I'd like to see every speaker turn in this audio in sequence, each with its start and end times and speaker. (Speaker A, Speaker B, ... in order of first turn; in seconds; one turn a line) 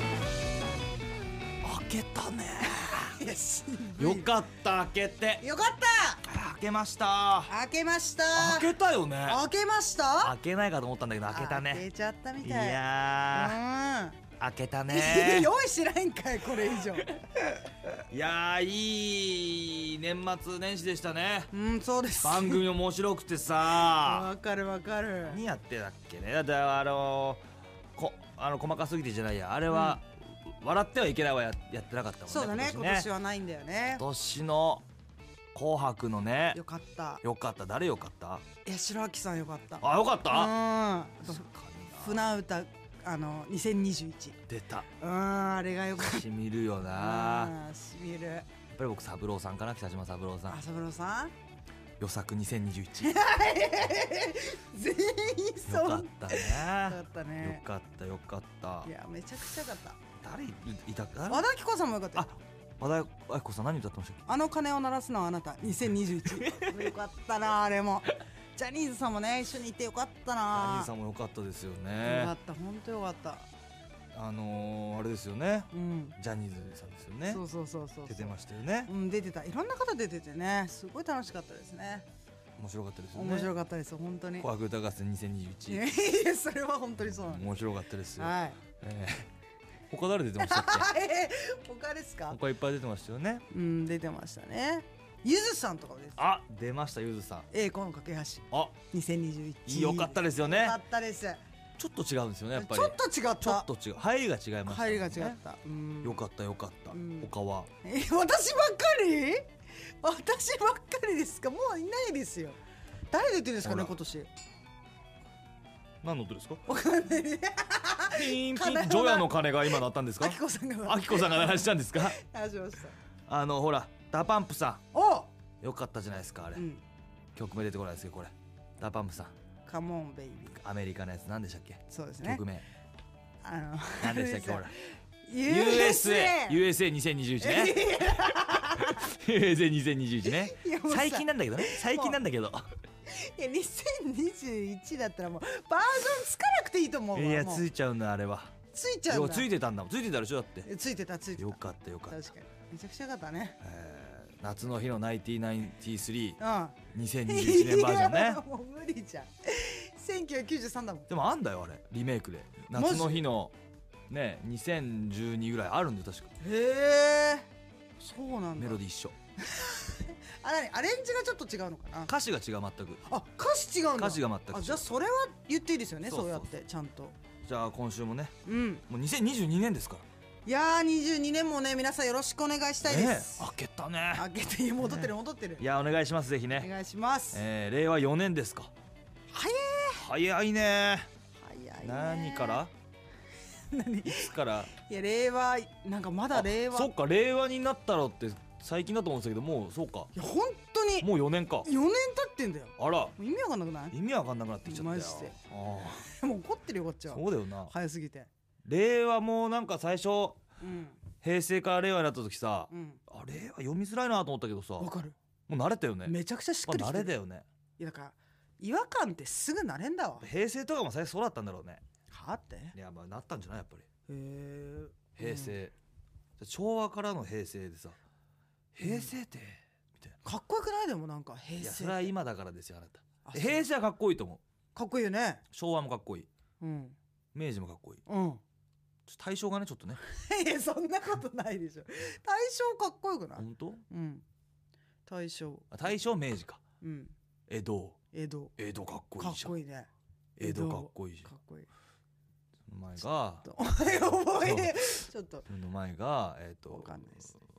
Speaker A: 1.6-3.2
Speaker B: 2.7-4.3
Speaker A: 4.0-5.4
Speaker B: 5.4-6.2
Speaker A: 6.2-7.5
Speaker B: 7.5-8.7
Speaker A: 8.3-9.4
Speaker B: 9.2-10.3
Speaker A: 10.2-11.8
Speaker B: 11.3-14.2
Speaker A: 12.4-13.6
Speaker A: 14.4-15.5
Speaker B: 14.9-17.2
Speaker A: 18.1-21.5
Speaker B: 21.5-22.6
Speaker A: 22.2-24.3
Speaker B: 23.8-25.4
Speaker A: 25.2-27.4
Speaker A: 27.9-33.1
Speaker B: 29.7-30.0
Speaker B: 32.3-34.0
Speaker A: 34.0-34.9
Speaker A: 35.5-36.6
Speaker B: 36.5-37.2
Speaker A: 37.2-38.4
Speaker B: 38.6-41.5
Speaker A: 39.8-40.5
Speaker A: 41.2-42.4
Speaker B: 42.0-44.4
Speaker A: 44.5-44.9
Speaker B: 45.0-46.2
Speaker A: 46.0-47.5
Speaker B: 46.9-48.5
Speaker A: 48.7-50.6
Speaker B: 50.5-51.3
Speaker A: 52.0-53.2
Speaker B: 53.0-57.6
Speaker A: 55.7-58.9
Speaker B: 58.8-60.0
Speaker A: 60.2-61.5
Speaker B: 61.3-62.3
Speaker A: 62.1-64.2
Speaker B: 64.3-70.9
Speaker A: 66.3-66.8
Speaker A: 70.5-72.3
Speaker B: 72.0-73.5
Speaker A: 74.1-77.4
Speaker B: 75.7-76.2
Speaker B: 77.3-82.1
Speaker A: 78.1-78.9
Speaker A: 82.6-83.5
Speaker B: 83.1-84.5
Speaker A: 84.4-85.8
Speaker B: 85.7-88.6
Speaker A: 87.1-89.3
Speaker A: 89.9-90.9
Speaker B: 90.4-92.4
Speaker A: 92.3-93.4
Speaker B: 93.5-96.2
Speaker A: 96.2-97.5
Speaker B: 97.5-101.4
Speaker A: 99.7-100.8
Speaker A: 101.8-105.4
Speaker B: 102.5-103.7
Speaker B: 104.7-106.2
Speaker A: 106.0-107.7
Speaker B: 106.9-107.3
Speaker B: 107.8-109.5
Speaker B: 110.0-112.6
Speaker B: 113.1-114.3
Speaker A: 113.6-113.9
Speaker A: 116.0-116.6
Speaker B: 116.7-122.9
Speaker A: 118.1-122.2
Speaker A: 123.3-124.8
Speaker B: 124.9-125.3
Speaker A: 125.6-126.6
Speaker B: 126.5-126.8
Speaker A: 127.3-129.3
Speaker B: 129.7-130.6
Speaker A: 130.5-132.6
Speaker B: 131.9-132.4
Speaker B: 133.4-136.6
Speaker A: 134.0-134.7
Speaker A: 135.4-137.8
Speaker B: 137.4-139.2
Speaker A: 138.8-142.7
Speaker B: 140.2-142.2
Speaker B: 143.1-147.7
Speaker A: 147.1-148.5
Speaker B: 148.7-149.5
Speaker A: 149.1-150.7
Speaker B: 150.6-153.6
Speaker A: 151.3-152.2
Speaker A: 153.6-156.4
Speaker B: 156.4-161.1
Speaker A: 156.9-158.4
Speaker A: 161.1-163.5
Speaker B: 162.7-163.2
Speaker A: 164.1-166.3
Speaker B: 166.4-167.5
Speaker B: 168.0-168.8
Speaker A: 168.6-169.1
Speaker B: 169.4-172.1
Speaker A: 172.1-173.0
Speaker B: 173.1-177.2
Speaker A: 174.0-174.8
Speaker A: 176.1-176.5
Speaker A: 177.4-178.3
Speaker B: 178.4-178.8
Speaker A: 178.9-180.0
Speaker B: 180.4-183.5
Speaker A: 182.8-184.2
Speaker B: 184.1-185.6
Speaker A: 184.8-186.7
Speaker B: 186.6-187.4
Speaker A: 187.3-188.7
Speaker B: 189.3-190.0
Speaker A: 190.0-191.1
Speaker B: 191.4-192.6
Speaker A: 191.8-192.7
Speaker B: 193.7-196.9
Speaker A: 194.1-194.7
Speaker A: 196.3-200.1
Speaker B: 200.1-201.1
Speaker A: 201.0-201.7
Speaker B: 201.6-203.9
Speaker A: 202.8-203.1
Speaker A: 203.9-206.1
Speaker B: 204.7-205.3
Speaker B: 206.0-208.3
Speaker A: 207.1-207.7
Speaker A: 208.6-210.4
Speaker B: 210.6-211.0
Speaker A: 211.2-214.9
Speaker B: 212.7-213.0
Speaker B: 214.8-215.2
Speaker A: 215.5-216.1
Speaker B: 216.1-217.1
Speaker A: 216.6-217.4
Speaker B: 217.8-220.3
Speaker A: 220.2-221.8
Speaker B: 222.1-222.8
Speaker A: 222.7-223.8
Speaker B: 224.1-225.6
Speaker A: 225.2-225.7
Speaker A: 226.4-228.0
Speaker A: 228.7-230.2
Speaker B: 228.8-229.1
Speaker B: 230.2-232.1
Speaker A: 231.6-234.4
Speaker B: 233.2-233.6
Speaker B: 234.7-235.4
Speaker A: 235.5-236.3
Speaker B: 236.6-236.9
Speaker A: 237.3-238.0
Speaker B: 238.1-238.4
Speaker A: 239.1-240.0
Speaker B: 240.0-244.2
Speaker A: 243.4-243.8
Speaker B: 245.1-245.7
Speaker A: 245.7-246.6
Speaker B: 246.8-247.1
Speaker A: 247.5-248.0
Speaker B: 248.1-248.5
Speaker A: 248.6-249.5
Speaker B: 249.2-249.9
Speaker A: 250.4-251.3
Speaker B: 250.4-251.7
Speaker A: 252.7-257.0
Speaker B: 253.4-255.5
Speaker B: 256.7-257.3